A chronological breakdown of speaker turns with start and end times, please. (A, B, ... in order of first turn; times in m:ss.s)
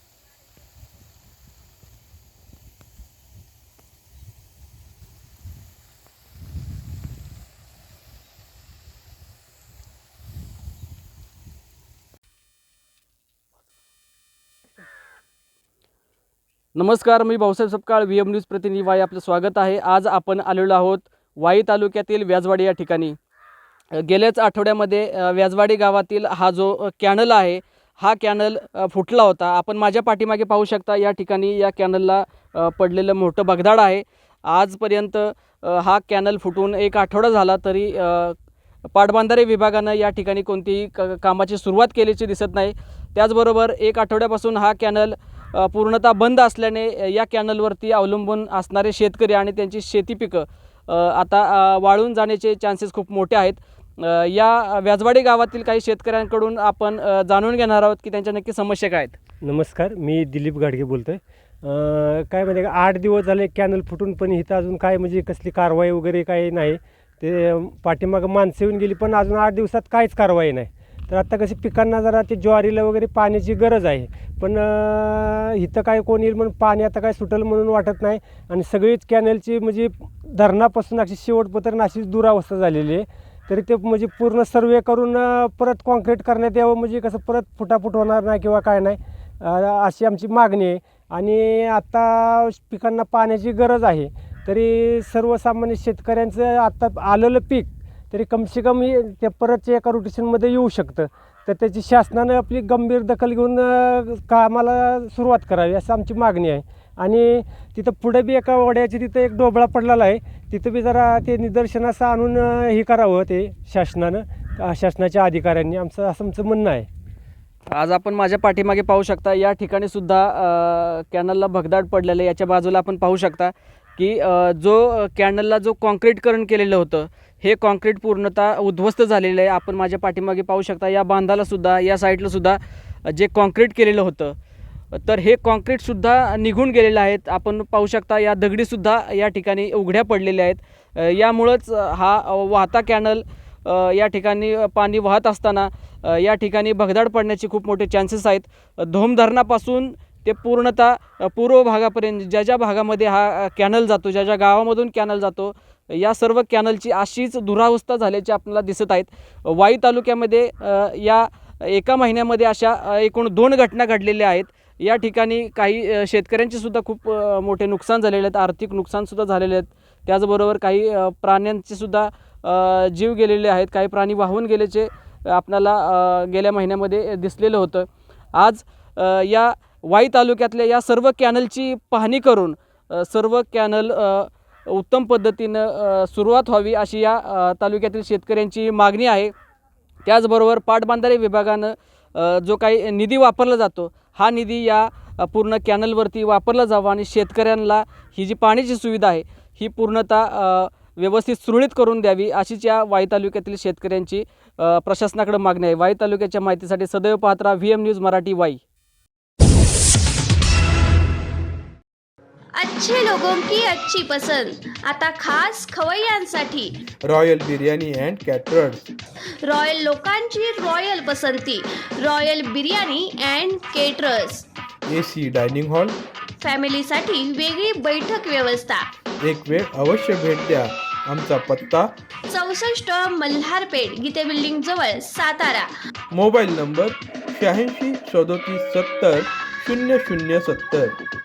0:16.8-0:23.1 A
0:23.9-0:38.3 A
0:38.9-0:59.2 A
0:59.4-1:56.9 B
1:57.7-2:14.4 A
2:14.9-3:09.3 A
3:10.0-3:28.6 A
3:32.6-3:36.7 C
3:37.0-3:38.9 D
3:39.4-3:44.4 C
3:44.9-3:46.0 D
3:46.4-3:48.8 C
3:49.2-3:51.9 D
3:52.3-3:55.7 C
3:56.1-4:01.0 D